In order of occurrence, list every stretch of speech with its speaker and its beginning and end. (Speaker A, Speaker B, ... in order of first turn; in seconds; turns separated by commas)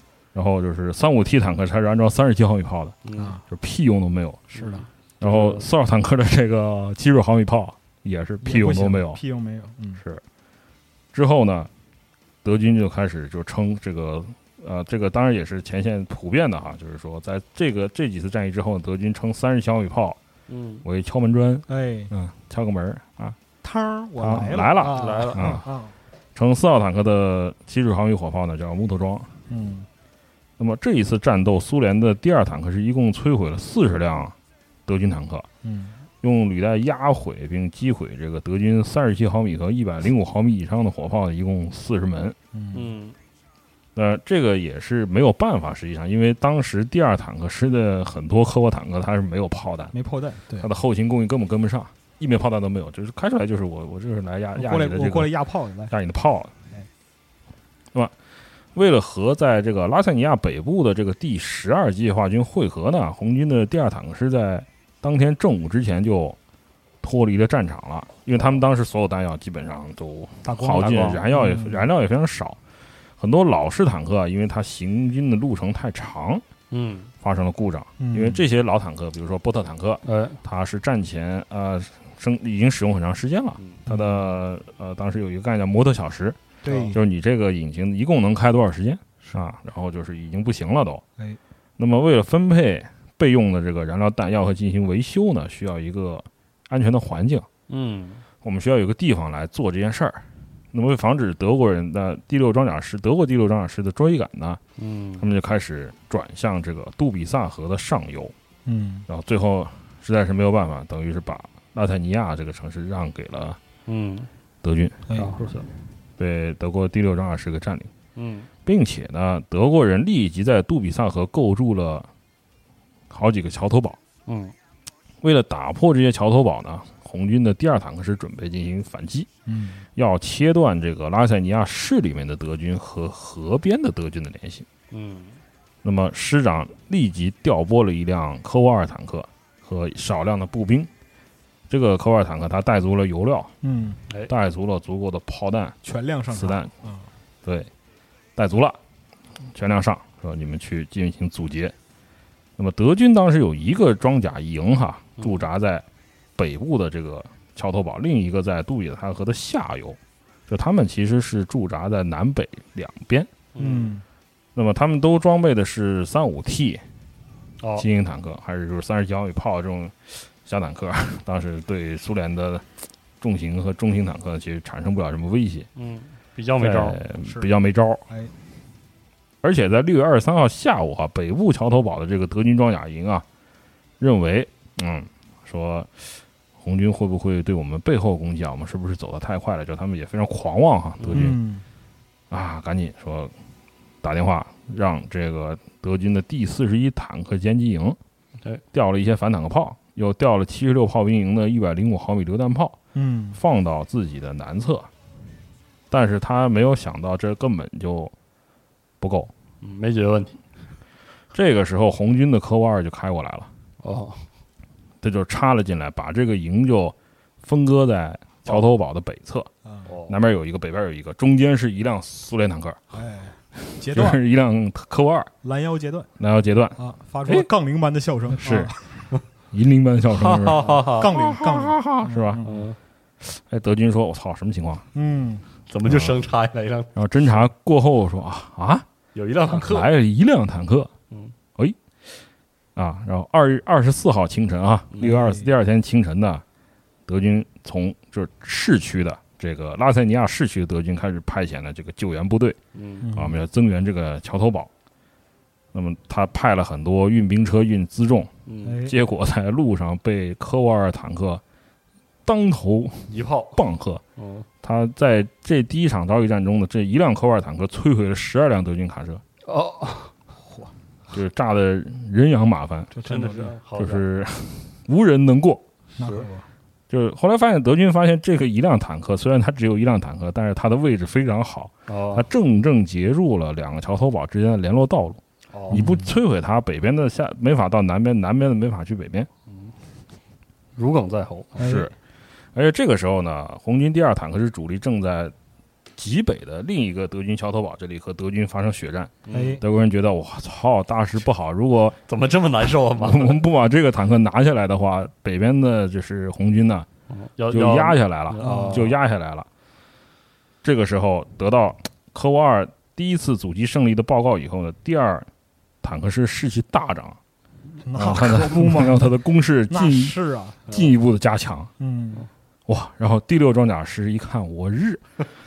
Speaker A: 0.3-4.5, Speaker B: 3.0-3.4, Speaker C: 3.1-3.4, Speaker C: 4.5-4.9, Speaker B: 4.5-5.6, Speaker A: 5.2-9.2, Speaker C: 8.4-10.0, Speaker A: 11.1-11.7, Speaker A: 12.4-20.2, Speaker B: 20.5-20.9, Speaker A: 20.8-23.4, Speaker C: 21.7-22.1, Speaker C: 23.6-25.9, Speaker A: 24.2-25.6, Speaker B: 24.9-25.6, Speaker A: 26.4-29.3, Speaker C: 29.5-29.9, Speaker A: 30.6-34.4, Speaker A: 34.9-35.5, Speaker C: 35.6-36.0, Speaker A: 36.2-42.4, Speaker C: 42.5-42.9, Speaker B: 42.7-43.2, Speaker A: 43.9-49.9, Speaker C: 49.9-50.7, Speaker A: 50.6-55.3, Speaker C: 54.5-55.9, Speaker A: 55.9-56.5, Speaker A: 58.7-66.4, Speaker A: 67.0-72.6, Speaker C: 70.4-71.9, Speaker B: 70.8-71.2, Speaker A: 73.2-76.4, Speaker B: 76.7-77.1, Speaker A: 77.2-86.4, Speaker C: 78.0-78.4, Speaker B: 80.0-80.4, Speaker C: 83.9-84.2, Speaker C: 86.6-87.0, Speaker B: 86.7-86.9, Speaker A: 86.9-91.0, Speaker A: 91.8-97.5, Speaker B: 97.7-98.2, Speaker A: 98.4-104.6, Speaker B: 104.8-105.3, Speaker A: 105.2-108.3, Speaker C: 108.7-109.1, Speaker A: 109.1-113.6, Speaker B: 113.9-114.3, Speaker A: 114.6-115.0, Speaker B: 115.1-115.7, Speaker A: 116.2-117.9, Speaker B: 118.1-118.5, Speaker A: 118.7-122.1, Speaker A: 123.1-124.0, Speaker B: 124.2-124.6, Speaker A: 125.2-129.3, Speaker C: 129.4-129.9, Speaker A: 129.9-134.7, Speaker B: 134.9-135.4, Speaker A: 135.8-140.9, Speaker A: 141.7-143.5, Speaker C: 143.6-144.0, Speaker A: 144.3-145.8, Speaker C: 145.8-147.1, Speaker A: 146.3-146.7, Speaker A: 147.4-147.7, Speaker A: 148.4-148.8, Speaker A: 149.4-151.7, Speaker A: 152.6-155.8, Speaker B: 155.2-155.4, Speaker A: 156.4-163.3, Speaker B: 163.6-164.0, Speaker C: 163.6-164.0, Speaker A: 164.6-166.8, Speaker B: 167.6-167.9, Speaker A: 167.8-172.7, Speaker A: 173.2-175.7, Speaker B: 175.7-177.0, Speaker A: 176.6-178.0, Speaker C: 177.2-177.5, Speaker C: 178.1-178.3, Speaker A: 179.4-183.2, Speaker A: 184.0-191.4, Speaker B: 191.0-191.4, Speaker C: 191.1-191.6, Speaker A: 192.3-193.3, Speaker A: 194.0-198.0, Speaker A: 198.7-202.8, Speaker C: 202.9-203.4, Speaker A: 203.3-204.9, Speaker A: 205.9-208.1, Speaker A: 209.0-209.3, Speaker B: 209.6-210.4, Speaker A: 211.3-213.5, Speaker B: 213.8-214.3, Speaker A: 215.0-219.5, Speaker B: 219.9-220.2, Speaker A: 220.1-222.8, Speaker C: 222.9-224.2, Speaker A: 223.6-225.3, Speaker C: 225.4-226.1, Speaker A: 226.2-227.5, Speaker C: 226.8-228.8, Speaker A: 228.3-228.7, Speaker A: 229.5-232.4, Speaker B: 230.1-231.1, Speaker C: 230.7-232.7, Speaker B: 232.4-232.8, Speaker A: 233.2-234.8, Speaker C: 234.9-235.4, Speaker B: 235.7-237.4, Speaker A: 235.8-236.2, Speaker A: 236.9-238.9, Speaker B: 239.1-239.9, Speaker A: 239.5-240.9, Speaker A: 242.8-246.4, Speaker C: 245.0-245.5, Speaker A: 247.1-252.6, Speaker B: 252.7-253.1, Speaker C: 253.0-253.4, Speaker A: 253.1-254.7, Speaker A: 255.7-258.3, Speaker B: 258.4-258.8, Speaker C: 258.6-258.9, Speaker A: 258.8-261.4, Speaker A: 262.2-264.0, Speaker B: 263.1-263.6, Speaker B: 264.2-264.5, Speaker A: 264.6-269.2, Speaker B: 269.4-270.1, Speaker C: 270.4-270.7, Speaker A: 271.1-272.9, Speaker C: 272.9-273.6, Speaker B: 273.0-274.1, Speaker A: 273.7-275.6, Speaker C: 276.0-276.5, Speaker B: 276.0-276.3, Speaker A: 276.9-289.3, Speaker B: 281.9-282.3, Speaker B: 285.5-285.9, Speaker C: 285.7-286.2, Speaker B: 289.5-289.7, Speaker B: 290.8-291.8, Speaker C: 291.6-291.9, Speaker A: 291.6-291.9, Speaker A: 292.5-295.4, Speaker A: 295.9-302.0, Speaker B: 299.2-299.6, Speaker C: 299.3-299.6, Speaker B: 302.1-303.4, Speaker A: 302.9-306.9, Speaker B: 307.1-308.9, Speaker A: 307.5-309.5, Speaker C: 308.4-308.9, Speaker A: 310.6-315.3, Speaker A: 315.8-317.2, Speaker C: 317.8-319.2, Speaker A: 317.9-320.1, Speaker C: 319.7-320.6, Speaker A: 320.7-321.7, Speaker B: 320.7-320.9, Speaker C: 321.8-322.3, Speaker A: 322.7-325.0